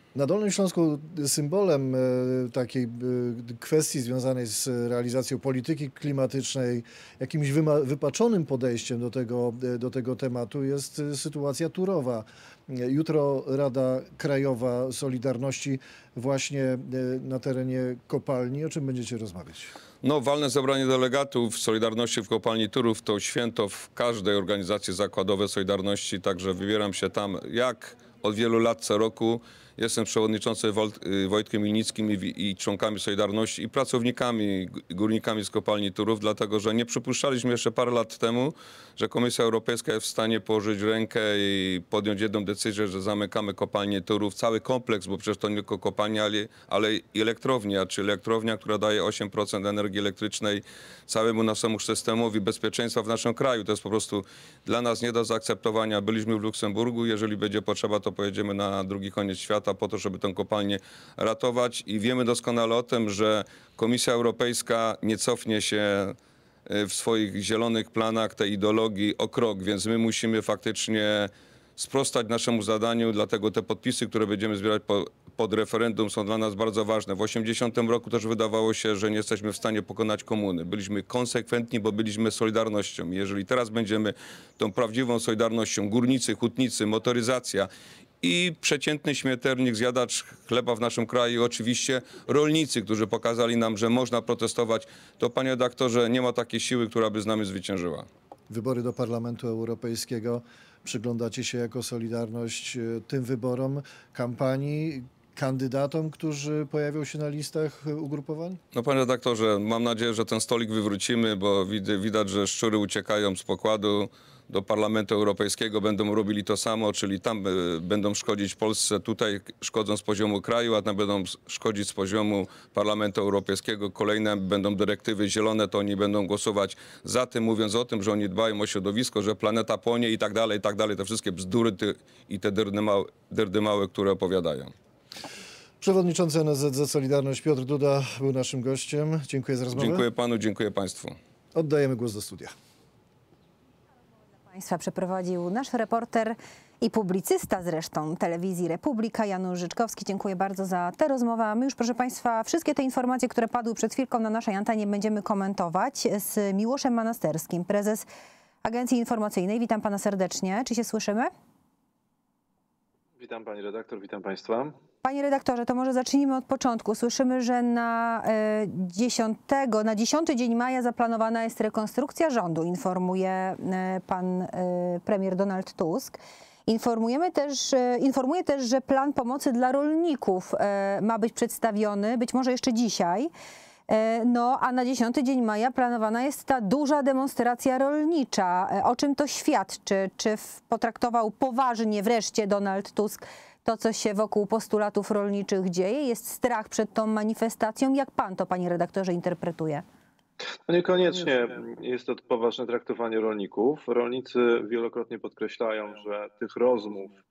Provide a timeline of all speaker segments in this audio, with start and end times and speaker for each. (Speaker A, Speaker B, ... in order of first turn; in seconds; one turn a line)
Speaker A: 0.1-19.7
Speaker B: 20.0-66.2
Speaker B: 66.7-87.7
Speaker B: 88.2-98.1
Speaker A: 98.5-108.6
Speaker B: 108.7-134.7
Speaker A: 135.8-140.0
Speaker B: 139.7-141.2
Speaker A: 141.5-142.5
Speaker C: 144.5-158.1
Speaker C: 158.6-161.3
Speaker D: 163.2-164.7
Speaker C: 165.0-183.3
Speaker C: 183.9-199.8
Speaker D: 200.7-207.1